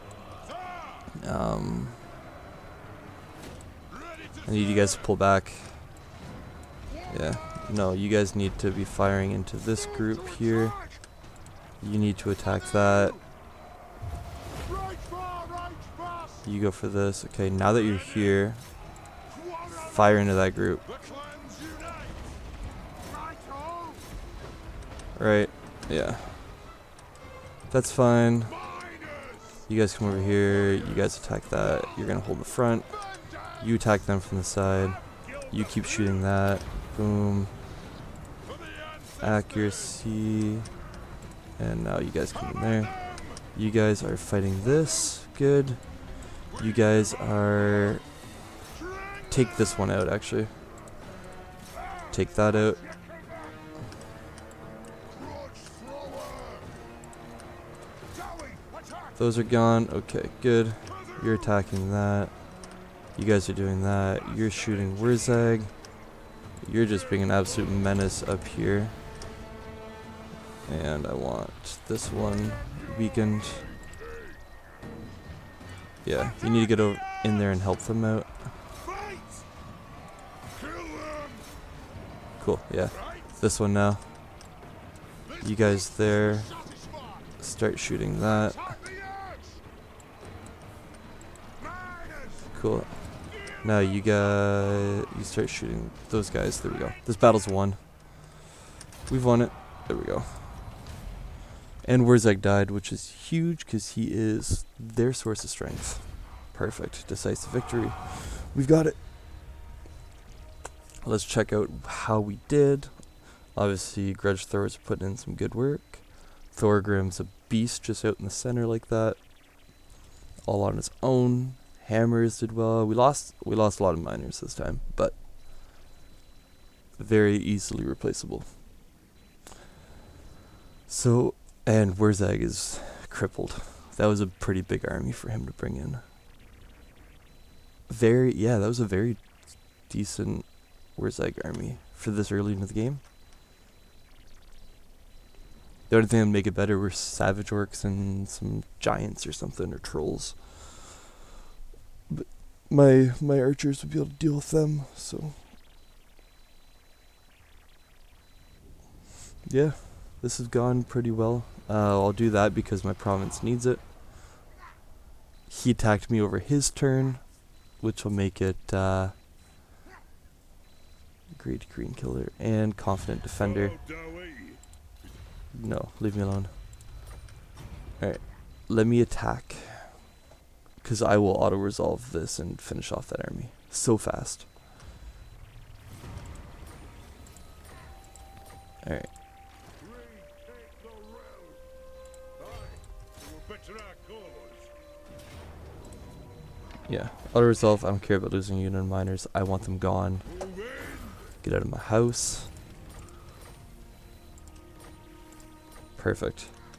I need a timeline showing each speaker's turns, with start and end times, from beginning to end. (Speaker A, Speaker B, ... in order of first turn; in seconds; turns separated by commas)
Speaker A: 0.4-1.1, Speaker B: 1.2-2.0, Speaker A: 3.9-5.1, Speaker B: 4.5-5.8, Speaker A: 6.9-7.4, Speaker B: 7.1-10.8, Speaker A: 9.7-11.0, Speaker B: 11.8-13.2, Speaker A: 12.6-13.2, Speaker A: 14.6-16.5, Speaker B: 16.4-18.6, Speaker A: 17.8-18.4, Speaker A: 19.3-22.4, Speaker B: 19.7-20.8, Speaker A: 23.0-24.1, Speaker B: 25.2-26.5, Speaker B: 27.7-28.6, Speaker A: 28.4-29.7, Speaker B: 29.7-33.0, Speaker A: 30.5-33.8, Speaker B: 33.6-37.5, Speaker A: 34.8-36.3, Speaker A: 38.4-40.0, Speaker B: 39.2-40.7, Speaker B: 41.6-45.9, Speaker A: 42.3-43.4, Speaker A: 46.5-48.0, Speaker B: 46.5-48.0, Speaker A: 48.7-49.9, Speaker B: 49.3-50.5, Speaker A: 51.7-53.7, Speaker B: 52.1-52.8, Speaker A: 55.0-56.9, Speaker A: 58.1-59.2, Speaker B: 59.2-62.3, Speaker A: 60.8-61.6, Speaker B: 63.1-65.7, Speaker A: 64.2-65.6, Speaker B: 66.6-69.0, Speaker B: 70.7-73.7, Speaker A: 73.9-74.3, Speaker B: 76.0-78.5, Speaker A: 76.1-76.8, Speaker A: 78.8-79.5, Speaker A: 80.5-81.5, Speaker B: 82.4-84.1, Speaker A: 82.9-83.3, Speaker A: 85.2-87.3, Speaker B: 85.4-86.5, Speaker B: 87.4-88.6, Speaker A: 88.3-89.6, Speaker A: 91.6-92.5, Speaker B: 92.5-98.3, Speaker A: 93.2-95.1, Speaker A: 96.7-97.0, Speaker B: 99.1-100.7, Speaker B: 101.8-109.0, Speaker B: 111.0-119.2, Speaker B: 120.4-125.2, Speaker B: 127.0-128.6, Speaker B: 130.9-136.0, Speaker B: 137.9-143.0, Speaker B: 145.9-150.9, Speaker B: 152.1-155.4, Speaker B: 159.4-163.8, Speaker B: 165.5-169.2, Speaker B: 171.3-173.8, Speaker A: 173.4-174.6, Speaker B: 175.5-176.5, Speaker B: 178.0-180.0, Speaker B: 180.8-184.5, Speaker B: 188.8-189.1, Speaker A: 189.8-191.7, Speaker A: 192.4-194.7, Speaker B: 196.9-200.3, Speaker A: 200.2-201.3, Speaker B: 201.4-202.5, Speaker B: 206.0-206.5